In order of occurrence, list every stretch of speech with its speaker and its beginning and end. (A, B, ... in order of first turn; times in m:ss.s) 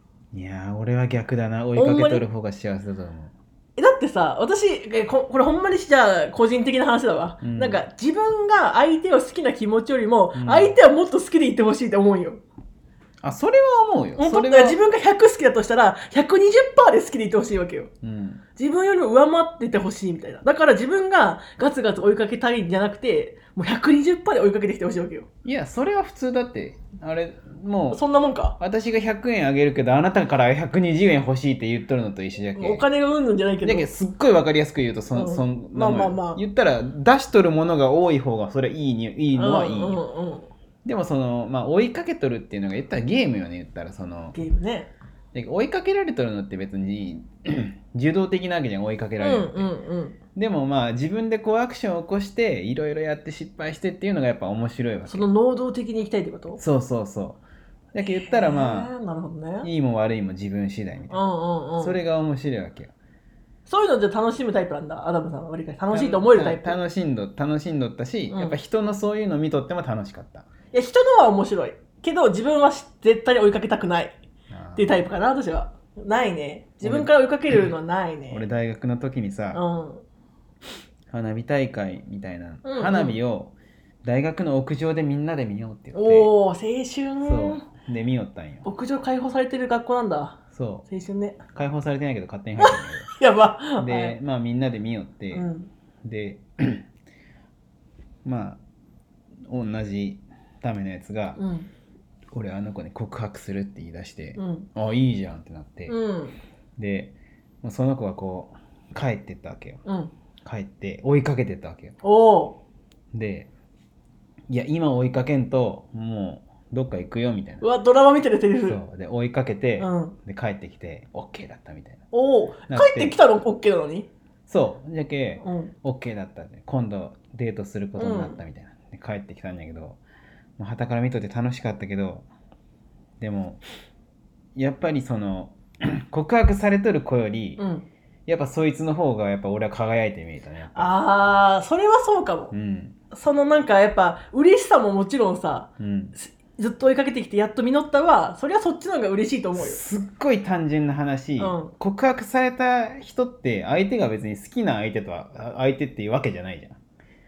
0:00.3-0:03.3 A
0:01.8-0:02.2 B
0:03.8-0:12.4 B
0:07.4-0:07.8 A
0:10.3-0:10.7 A
0:13.2-0:14.8 A
0:14.2-0:17.9 B
0:18.0-0:18.4 A
0:18.6-0:25.3 B
0:25.4-0:28.0 A
0:27.9-0:28.6 B
0:28.6-0:32.8 A
0:32.6-0:33.9 B
0:33.6-0:40.0 A
0:35.1-0:36.4 B
0:39.4-0:40.5 B
0:40.8-0:44.4 A
0:44.3-0:44.9 B
0:45.3-0:49.7 A
0:49.2-0:50.2 B
0:50.4-0:55.3 A
0:55.1-0:56.6 B
0:56.6-0:57.4 A
0:57.9-0:58.9 A
0:58.0-0:59.7 B
0:59.6-1:01.2 A
1:01.1-1:02.0 B
1:01.8-1:02.9 A
1:03.7-1:06.8 B
1:05.9-1:10.5 A
1:08.3-1:08.6 B
1:10.7-1:14.2 B
1:14.5-1:15.0 A
1:14.8-1:18.4 B
1:16.8-1:17.7 A
1:18.3-1:19.6 A
1:19.5-1:20.0 B
1:21.1-1:26.3 A
1:22.6-1:23.2 B
1:25.9-1:27.6 B
1:27.2-1:28.6 A
1:28.6-1:31.4 B
1:30.5-1:30.8 A
1:31.5-1:33.1 A
1:32.6-1:34.2 B
1:33.8-1:35.5 A
1:35.3-1:35.7 B
1:36.0-1:36.9 A
1:38.2-1:38.6 A
1:39.5-1:41.4 A
1:41.4-1:41.7 B
1:42.3-1:45.9 A
1:44.4-1:44.7 B
1:45.9-1:46.4 B
1:46.8-1:49.8 A
1:49.8-1:50.1 B
1:50.4-1:52.0 A
1:52.0-1:52.6 B
1:53.1-1:53.5 A
1:54.5-1:57.6 A
1:57.6-1:58.8 B
1:58.6-2:02.0 A
1:59.8-2:00.2 B
2:02.1-2:04.1 B
2:02.7-2:03.2 A
2:04.5-2:10.0 A
2:05.4-2:05.7 B
2:08.0-2:08.4 B
2:10.6-2:12.2 A
2:13.2-2:13.6 A
2:14.5-2:17.6 A
2:17.6-2:17.8 B
2:18.3-2:20.9 A
2:20.7-2:22.5 B
2:22.5-2:23.0 A
2:23.1-2:29.8 B
2:25.8-2:26.1 A
2:29.6-2:36.8 A
2:31.4-2:31.7 B